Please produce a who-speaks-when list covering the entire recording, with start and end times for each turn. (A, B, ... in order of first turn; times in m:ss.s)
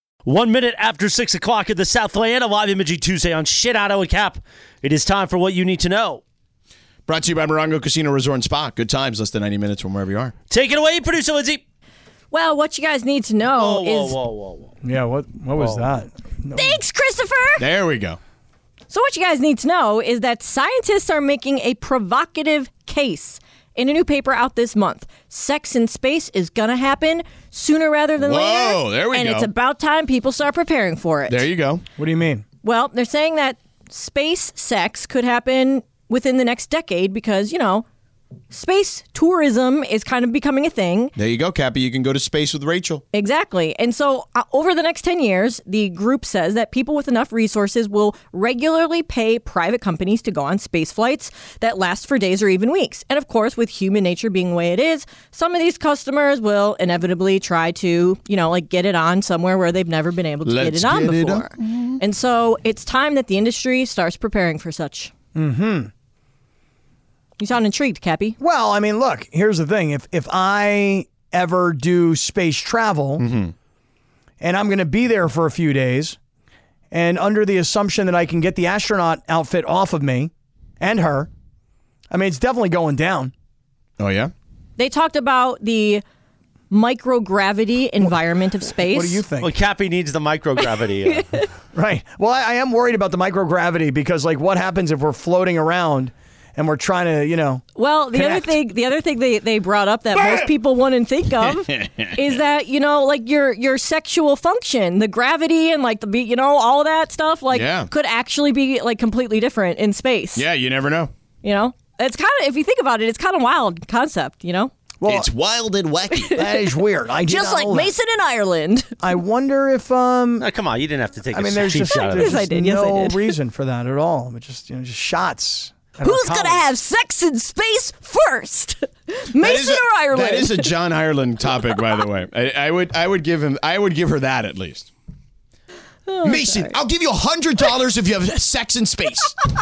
0:00.2-0:06.2 A
0:07.1-0:10.3 B
0:10.5-0:11.6 A
0:12.3-0:14.2 C
0:13.6-0:14.7 A
0:14.8-0:16.8 D
0:15.6-0:15.9 A
0:16.6-0:17.6 C
0:17.6-0:18.2 B
0:18.9-0:31.5 C
0:28.2-0:29.5 B
0:31.3-0:31.8 B
0:32.0-0:32.4 D
0:32.6-0:37.8 C
0:38.5-0:41.1 C
0:41.2-0:43.0 B
0:43.1-1:05.1 C
1:00.4-1:02.0 B
1:05.4-1:05.9 D
1:07.4-1:08.4 C
1:08.4-1:13.3 D
1:13.2-1:13.5 B
1:14.4-1:16.2 D
1:16.9-1:21.3 D
1:22.1-1:23.3 D
1:24.0-1:24.3 B
1:24.8-1:26.0 C
1:26.7-1:29.2 C
1:28.8-1:29.5 D
1:29.4-1:31.3 A
1:31.1-1:31.5 C
1:31.7-1:38.6 D
1:37.8-1:50.5 C
1:40.2-1:40.5 B
1:41.4-1:42.4 B
1:47.5-1:47.9 B
1:50.4-1:51.1 B
1:51.4-1:54.7 C
1:55.0-1:55.3 D
1:55.0-1:56.4 B
1:56.1-1:59.0 C
1:56.4-1:57.9 D
1:59.0-2:00.5 D
2:00.4-2:02.4 A
2:01.3-2:06.6 D
2:01.9-2:03.4 C
2:06.0-2:10.7 C
2:09.4-2:14.9 B
2:16.1-2:16.8 C
2:16.2-2:19.4 B